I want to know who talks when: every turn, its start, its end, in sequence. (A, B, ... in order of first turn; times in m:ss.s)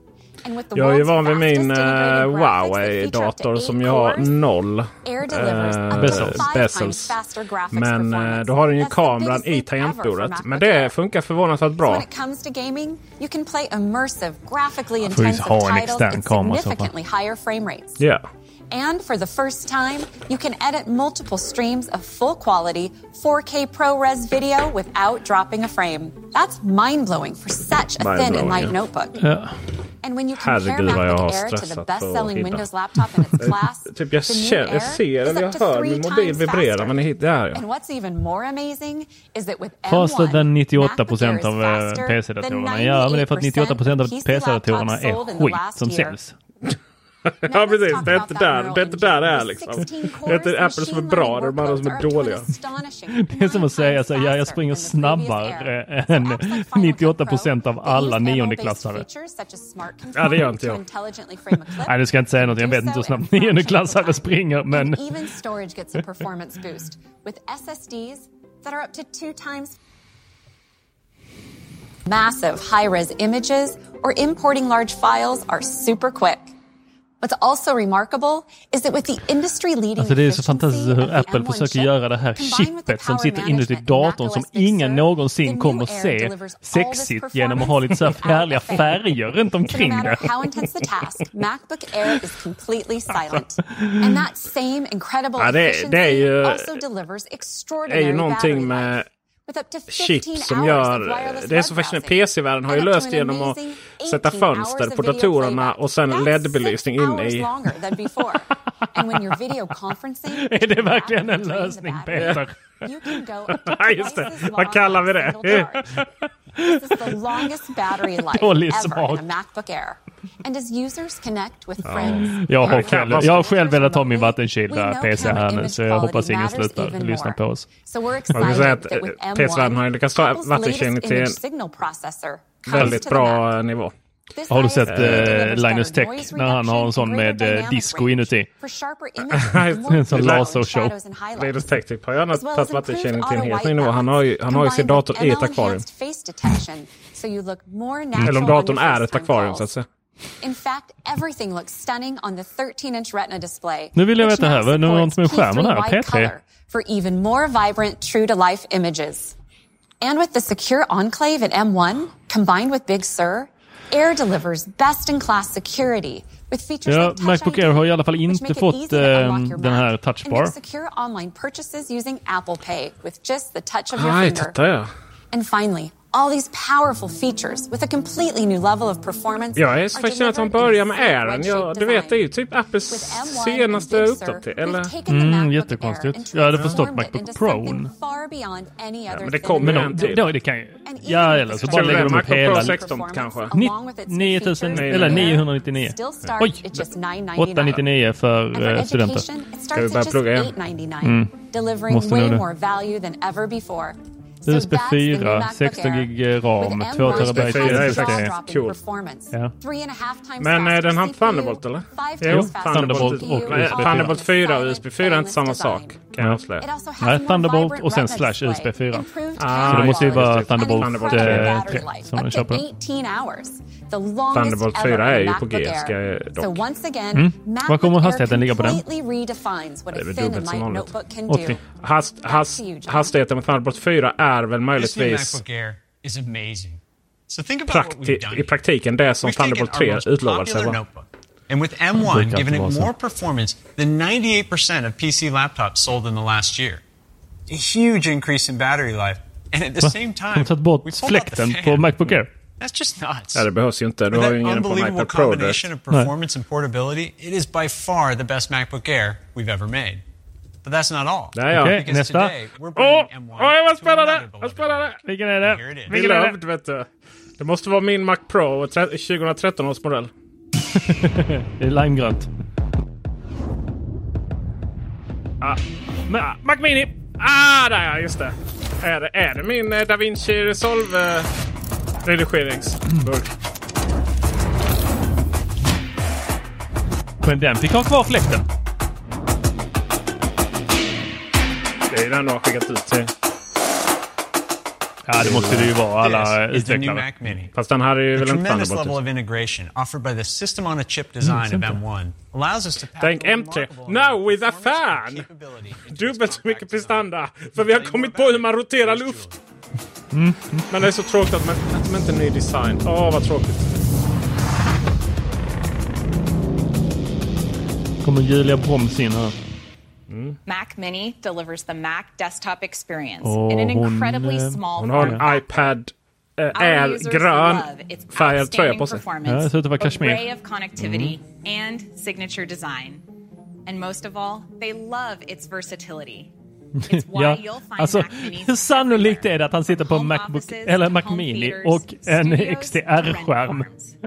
0:00.4-0:04.3 A
0:00.7-0:07.2 B
0:05.0-0:10.9 A
0:05.9-0:06.5 C
0:07.7-0:12.0 B
0:11.8-0:18.0 A
0:15.0-0:16.9 C
0:18.0-0:18.2 B
0:18.7-0:29.3 A
0:28.0-0:28.7 B
0:29.2-0:29.6 C
0:30.0-0:37.0 A
0:30.4-0:32.6 B
0:33.4-0:37.6 B
0:37.5-0:46.2 A
0:39.9-0:46.3 C
0:47.4-0:52.5 B
0:47.4-1:09.8 A
0:53.1-0:59.0 C
1:00.1-1:00.8 B
1:01.8-1:05.3 C
1:12.0-1:16.5 A
1:17.2-1:29.1 A
1:20.0-1:30.3 C
1:29.6-1:56.0 A
1:33.1-1:33.4 B
1:33.7-1:34.1 C
1:35.4-1:36.8 B
1:37.9-1:39.1 B
1:39.9-1:47.5 B
1:50.3-1:52.6 C
1:53.6-1:55.8 B
1:55.5-1:57.2 C
1:56.6-2:13.5 A
1:58.1-1:59.3 C
2:01.8-2:03.4 B
2:02.1-2:07.7 C
2:08.3-2:11.4 B
2:12.6-2:13.9 B
2:14.3-2:21.7 A
2:14.5-2:18.5 C
2:14.9-2:15.4 B
2:19.3-2:20.5 B
2:19.9-2:21.0 C
2:21.4-2:25.8 B
2:22.3-2:29.7 A
2:28.2-2:29.8 B
2:28.2-2:28.5 C
2:30.4-2:39.3 A
2:33.9-2:36.3 C
2:40.0-2:54.6 A
2:46.8-2:50.6 C
2:53.9-2:54.9 B
2:55.3-3:02.2 A
2:59.6-3:04.9 B
3:02.9-3:10.3 A
3:05.1-3:07.9 C
3:06.5-3:06.9 B
3:09.1-3:10.3 B
3:09.6-3:12.9 C
3:10.8-3:17.8 A
3:11.6-3:13.5 B
3:13.5-3:16.8 C
3:14.7-3:15.4 B
3:17.4-3:19.2 C
3:18.5-3:36.0 A
3:19.7-3:20.5 B
3:21.0-3:21.3 C
3:21.9-3:22.5 C
3:24.4-3:28.3 C
3:27.1-3:28.8 B
3:30.4-3:36.6 B
3:32.2-3:34.2 C
3:36.6-3:51.7 A
3:37.0-3:42.6 C
3:39.4-3:41.7 B
3:44.3-3:46.6 B
3:47.1-3:48.8 C
3:49.9-3:50.9 B
3:51.3-3:51.6 C
3:51.7-3:55.4 B
3:52.2-3:53.1 A
3:54.7-3:58.5 D
3:57.7-4:00.8 B
3:59.2-4:06.8 D
4:02.0-4:02.9 C
4:07.5-4:11.9 D
4:09.8-4:12.3 C
4:12.6-4:13.5 D
4:13.3-4:15.6 B
4:14.1-4:20.0 D
4:20.6-4:26.0 D
4:21.3-4:21.8 B
4:21.5-4:22.3 C
4:22.8-4:25.0 B
4:25.0-4:26.4 C
4:25.9-4:30.1 B
4:30.9-4:32.3 C
4:35.4-4:41.3 B
4:42.0-4:43.3 B
4:47.2-4:48.4 C
4:51.9-4:53.1 B
4:55.1-4:57.1 C
4:55.3-4:55.6 B
4:55.3-4:57.5 D
4:57.5-4:59.0 B
4:58.2-5:09.4 D
5:01.2-5:01.8 C
5:03.0-5:05.3 B
5:05.8-5:09.3 B
5:10.1-5:10.6 C
5:10.7-5:13.7 B
5:18.0-5:19.3 C
5:20.1-5:20.4 B
5:20.4-5:25.4 E
5:23.2-5:25.2 C
5:24.7-5:29.1 B
5:26.5-5:33.0 E
5:29.3-5:31.2 C
5:33.6-5:36.3 E
5:36.9-5:43.7 C
5:36.9-5:43.9 E